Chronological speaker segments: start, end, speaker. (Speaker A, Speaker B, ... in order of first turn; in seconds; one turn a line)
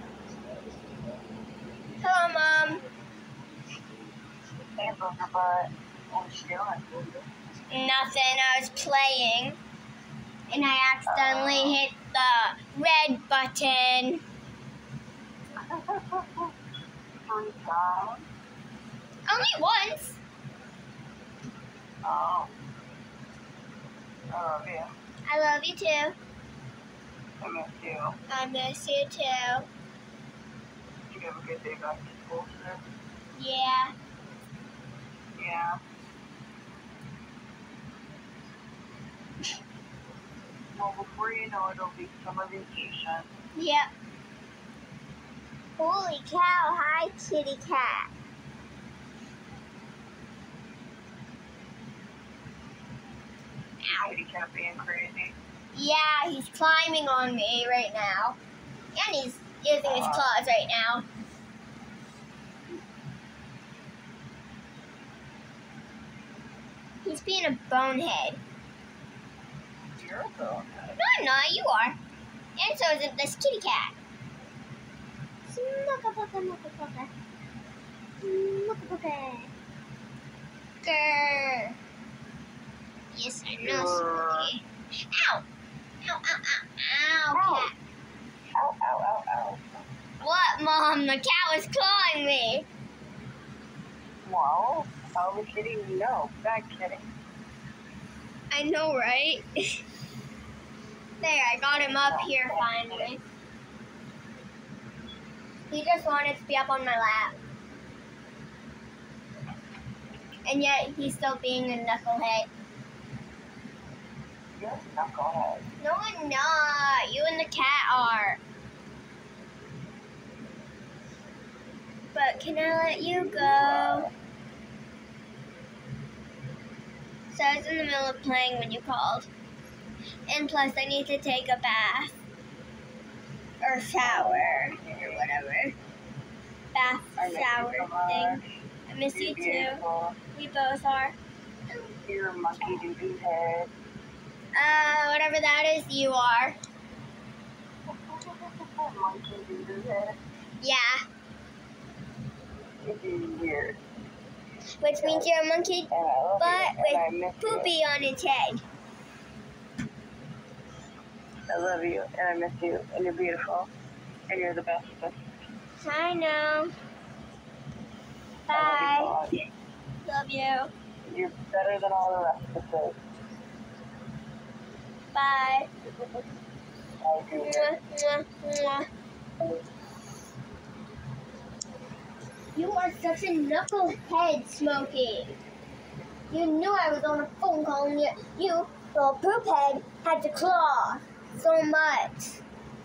Speaker A: 2.0-2.8
Speaker B: 4.8-7.3
Speaker A: 7.7-9.6
Speaker A: 10.5-14.2
Speaker B: 11.1-11.8
Speaker B: 15.7-16.5
Speaker B: 17.3-18.3
Speaker A: 19.3-20.2
Speaker B: 22.0-22.5
Speaker B: 24.3-24.9
Speaker A: 25.3-26.2
Speaker B: 27.4-28.2
Speaker A: 28.3-29.7
Speaker B: 31.1-32.8
Speaker A: 33.4-33.9
Speaker B: 35.4-35.8
Speaker B: 40.7-43.3
Speaker A: 43.6-43.9
Speaker A: 45.8-48.1
Speaker A: 53.8-54.1
Speaker B: 53.9-55.4
Speaker A: 55.7-58.4
Speaker A: 59.0-61.0
Speaker B: 59.8-60.4
Speaker A: 67.0-68.4
Speaker B: 70.0-71.0
Speaker A: 71.0-72.0
Speaker A: 72.6-74.0
Speaker A: 75.5-77.1
Speaker A: 78.2-79.5
Speaker A: 80.8-81.8
Speaker A: 83.1-85.4
Speaker B: 83.6-84.5
Speaker A: 86.0-87.8
Speaker B: 87.3-87.7
Speaker B: 88.6-89.8
Speaker A: 90.2-92.7
Speaker B: 94.2-97.1
Speaker A: 98.5-99.8
Speaker A: 101.2-103.2
Speaker B: 101.7-103.1
Speaker A: 105.7-107.4
Speaker A: 110.5-112.5
Speaker B: 114.6-115.7
Speaker A: 115.8-118.4
Speaker A: 122.1-124.1
Speaker B: 122.7-124.1
Speaker A: 127.3-129.3
Speaker A: 130.3-132.2
Speaker A: 133.6-135.8
Speaker B: 134.0-135.4
Speaker A: 136.7-139.8
Speaker B: 137.2-138.5
Speaker B: 139.1-140.2
Speaker A: 140.3-141.2
Speaker B: 141.7-143.7
Speaker A: 144.6-146.6
Speaker B: 148.1-150.2
Speaker A: 150.6-151.0
Speaker B: 152.8-153.8
Speaker A: 154.8-158.6
Speaker B: 155.0-155.3
Speaker B: 155.9-157.8
Speaker B: 161.5-163.7
Speaker B: 164.3-165.2
Speaker A: 165.8-166.7
Speaker A: 168.5-169.2
Speaker B: 168.5-169.5
Speaker A: 170.0-170.7
Speaker B: 171.1-173.0
Speaker A: 175.1-175.7
Speaker B: 177.0-177.8
Speaker A: 177.3-178.9
Speaker A: 182.6-185.4
Speaker A: 186.3-192.4